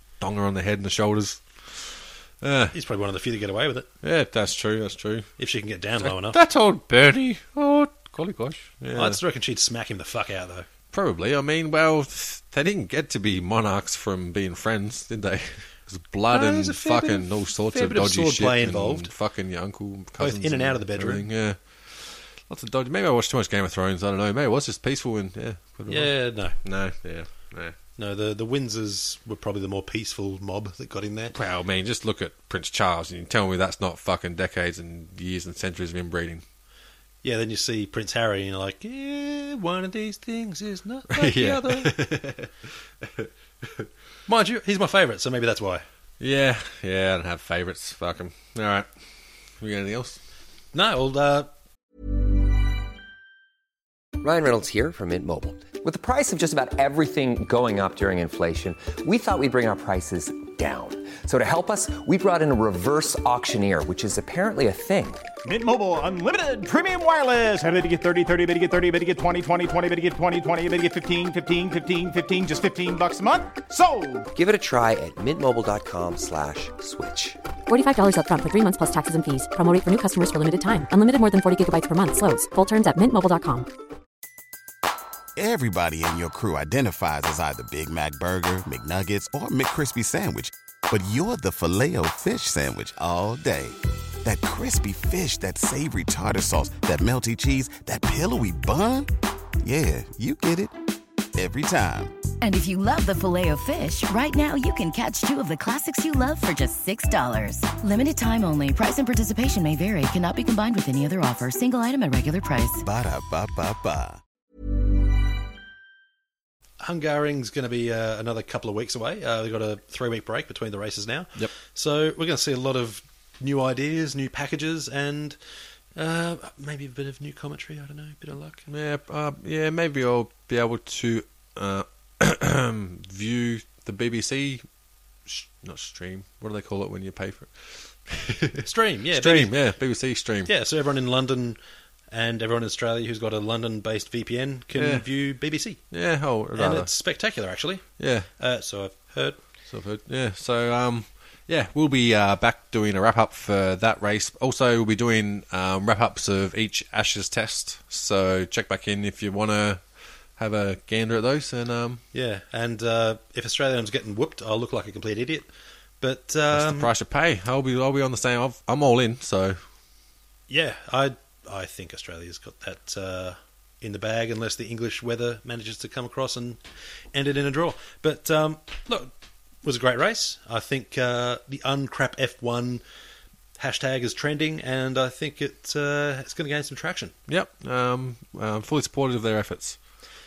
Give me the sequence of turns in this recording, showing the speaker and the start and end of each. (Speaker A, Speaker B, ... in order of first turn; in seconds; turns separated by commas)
Speaker A: 0.2-2.7, Speaker B: 2.7-3.9, Speaker A: 4.0-5.3, Speaker B: 5.4-6.4, Speaker A: 6.0-9.2, Speaker B: 8.9-10.7, Speaker A: 10.9-27.8, Speaker B: 16.3-19.1, Speaker B: 20.2-21.2, Speaker B: 25.9-26.6, Speaker B: 28.0-31.4, Speaker A: 31.3-36.4, Speaker B: 37.2-42.0, Speaker A: 41.1-42.5, Speaker A: 43.0-43.9, Speaker B: 44.3-45.8, Speaker A: 46.2-48.9, Speaker A: 49.6-50.2, Speaker B: 50.7-51.5, Speaker C: 54.2-65.3, Speaker D: 65.4-74.3, Speaker C: 74.3-77.4, Speaker E: 77.7-83.7, Speaker F: 85.3-100.7, Speaker F: 101.3-102.1, Speaker G: 102.4-112.8, Speaker F: 112.8-114.2, Speaker B: 116.8-125.4, Speaker B: 126.0-128.7, Speaker A: 128.7-134.6, Speaker A: 135.3-140.5, Speaker B: 138.6-139.5, Speaker B: 140.4-141.6, Speaker B: 142.1-145.8, Speaker A: 144.8-145.1, Speaker A: 145.9-146.9, Speaker B: 146.6-147.8, Speaker A: 148.0-148.3, Speaker B: 148.4-149.4, Speaker A: 149.7-159.8, Speaker A: 160.4-162.0, Speaker B: 162.1-165.5, Speaker B: 166.0-166.9, Speaker A: 166.5-169.6, Speaker B: 170.5-176.6, Speaker B: 177.1-179.1, Speaker B: 179.6-182.8, Speaker B: 183.6-187.1, Speaker A: 187.3-189.8